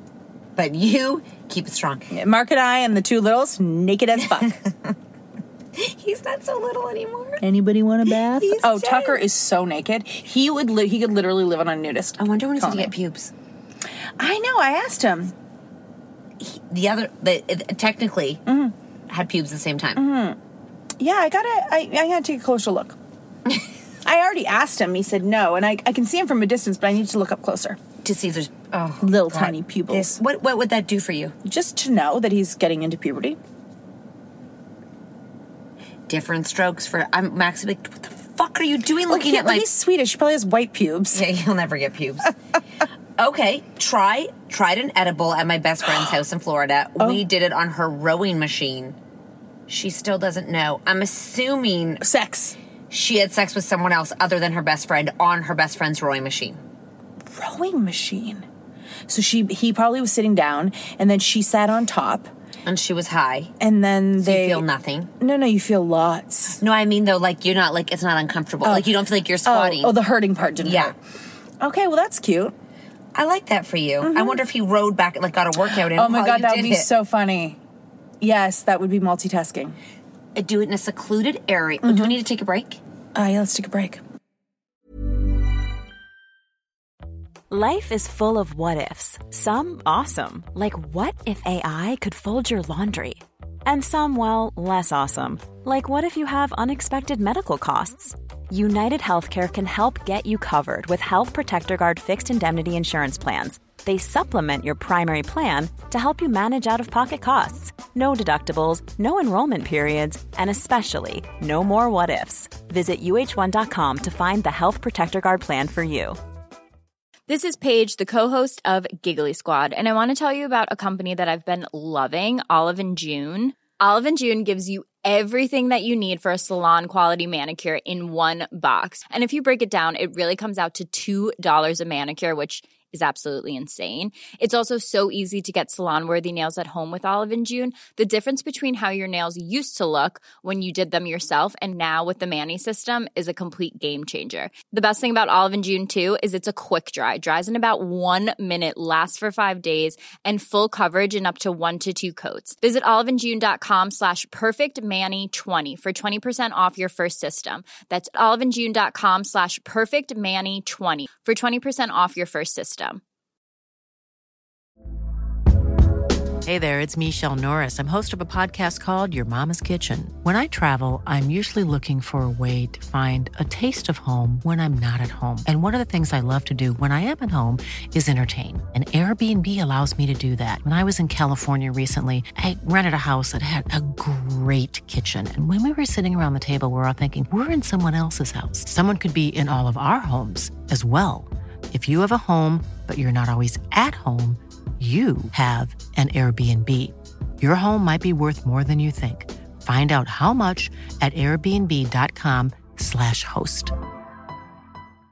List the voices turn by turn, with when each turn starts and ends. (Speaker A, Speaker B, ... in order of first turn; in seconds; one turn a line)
Speaker A: 0.6-2.1
Speaker B: 2.1-4.5
Speaker A: 4.4-4.9
Speaker A: 5.8-7.4
Speaker B: 7.4-12.9
Speaker A: 8.1-9.2
Speaker A: 12.2-13.3
Speaker B: 14.2-15.3
Speaker A: 16.4-18.4
Speaker B: 18.5-18.7
Speaker A: 19.1-20.0
Speaker B: 20.0-20.4
Speaker B: 21.0-22.9
Speaker B: 24.1-27.8
Speaker A: 28.0-31.4
Speaker B: 29.0-30.2
Speaker B: 31.4-33.4
Speaker A: 36.1-39.7
Speaker B: 39.1-41.2
Speaker A: 41.1-42.3
Speaker A: 43.2-49.0
Speaker A: 49.7-52.0
Speaker B: 52.0-52.5
Speaker A: 52.9-56.6
Speaker B: 57.3-58.5
Speaker B: 59.1-62.3
Speaker A: 62.6-63.5
Speaker B: 63.6-64.6
Speaker A: 64.2-65.1
Speaker B: 65.2-66.6
Speaker A: 66.6-70.0
Speaker B: 68.6-68.9
Speaker B: 69.5-71.0
Speaker A: 70.6-70.9
Speaker B: 71.6-72.5
Speaker A: 73.2-76.9
Speaker B: 74.0-74.4
Speaker B: 75.9-77.6
Speaker B: 78.2-79.8
Speaker A: 80.4-82.8
Speaker B: 81.8-82.1
Speaker B: 83.2-84.0
Speaker C: 87.5-116.2
Speaker D: 117.3-163.0
Speaker E: 166.4-203.7